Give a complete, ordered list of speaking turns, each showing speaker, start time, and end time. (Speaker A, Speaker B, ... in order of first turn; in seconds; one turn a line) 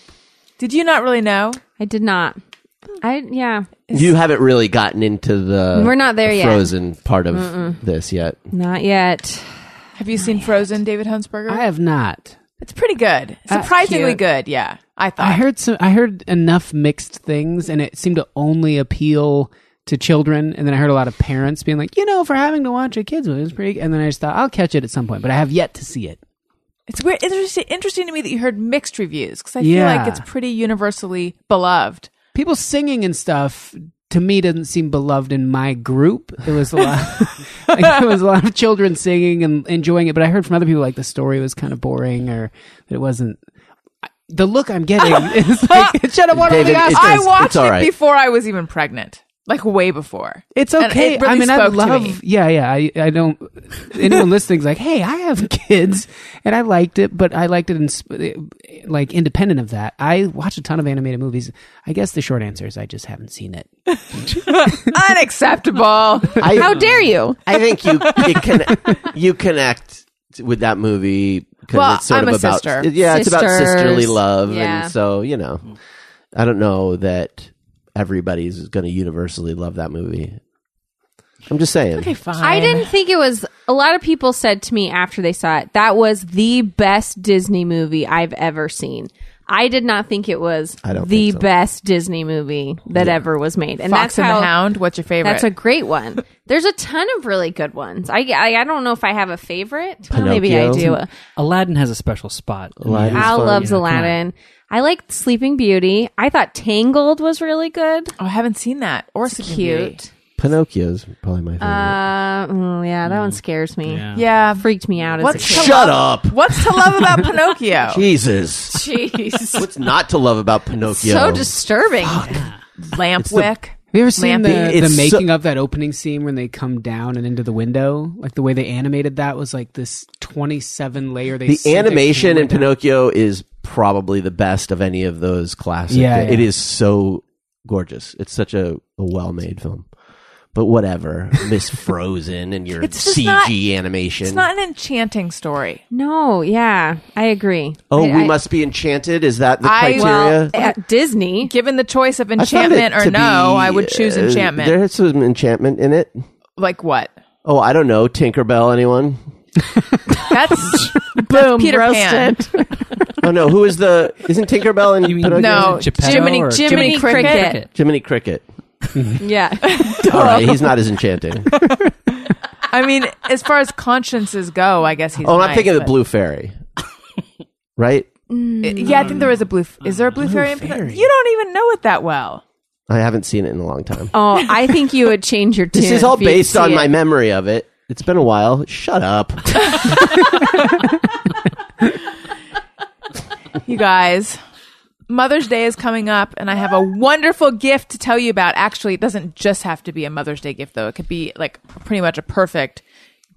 Speaker A: 0.6-1.6
Speaker B: 1.8-2.4
Speaker B: 3.0-3.8
Speaker A: 3.9-4.1
Speaker C: 3.9-8.4
Speaker B: 5.7-6.7
Speaker B: 7.3-7.8
Speaker B: 8.5-9.7
Speaker A: 10.0-11.7
Speaker D: 11.5-12.4
Speaker A: 12.6-15.4
Speaker D: 13.5-14.2
Speaker D: 15.2-26.2
Speaker A: 26.9-32.1
Speaker D: 29.6-30.2
Speaker D: 32.4-43.4
Speaker D: 44.3-47.5
Speaker A: 45.1-46.0
Speaker C: 46.4-47.9
Speaker A: 46.5-52.2
Speaker D: 50.5-64.8
Speaker A: 64.2-66.7
Speaker C: 66.4-75.7
Speaker B: 66.4-67.4
Speaker A: 68.1-68.4
Speaker A: 71.7-72.9
Speaker B: 73.0-74.9
Speaker C: 76.3-80.4
Speaker C: 81.5-82.1
Speaker A: 82.0-82.9
Speaker B: 82.4-94.6
Speaker C: 90.8-91.5
Speaker C: 93.0-93.2
Speaker A: 93.9-95.5
Speaker B: 95.2-101.1
Speaker C: 100.1-100.9
Speaker E: 100.8-104.2
Speaker C: 102.8-103.7
Speaker B: 103.1-108.1
Speaker A: 108.2-110.0
Speaker B: 109.3-110.1
Speaker C: 110.4-112.0
Speaker B: 111.6-116.0
Speaker E: 113.0-114.3
Speaker A: 114.1-114.7
Speaker A: 115.2-118.0
Speaker C: 115.4-116.4
Speaker C: 117.9-118.9
Speaker B: 118.7-119.7
Speaker C: 119.5-121.5
Speaker B: 120.9-122.4
Speaker A: 122.9-124.7
Speaker C: 123.2-123.5
Speaker D: 123.9-132.7
Speaker C: 124.4-125.3
Speaker C: 131.5-139.9
Speaker D: 135.9-136.5
Speaker C: 140.5-144.5
Speaker A: 142.8-143.5
Speaker A: 144.2-145.8
Speaker B: 145.9-148.3
Speaker C: 147.9-150.5
Speaker A: 149.6-150.8
Speaker B: 149.9-151.5
Speaker A: 151.4-154.8
Speaker C: 152.4-156.2
Speaker A: 156.6-157.1
Speaker C: 157.4-159.2
Speaker A: 160.3-162.4
Speaker B: 161.2-162.9
Speaker C: 163.2-166.0
Speaker E: 165.0-167.7
Speaker A: 165.3-167.6
Speaker B: 165.9-167.7
Speaker C: 167.7-168.4
Speaker B: 169.2-170.6
Speaker A: 169.6-170.1
Speaker C: 170.1-171.6
Speaker A: 172.7-175.9
Speaker C: 175.2-176.6
Speaker C: 177.8-178.1
Speaker B: 178.3-179.3
Speaker A: 178.6-182.4
Speaker D: 180.1-181.1
Speaker C: 182.9-184.1
Speaker B: 184.1-186.9
Speaker C: 185.7-190.0
Speaker A: 193.7-194.4
Speaker A: 195.1-202.8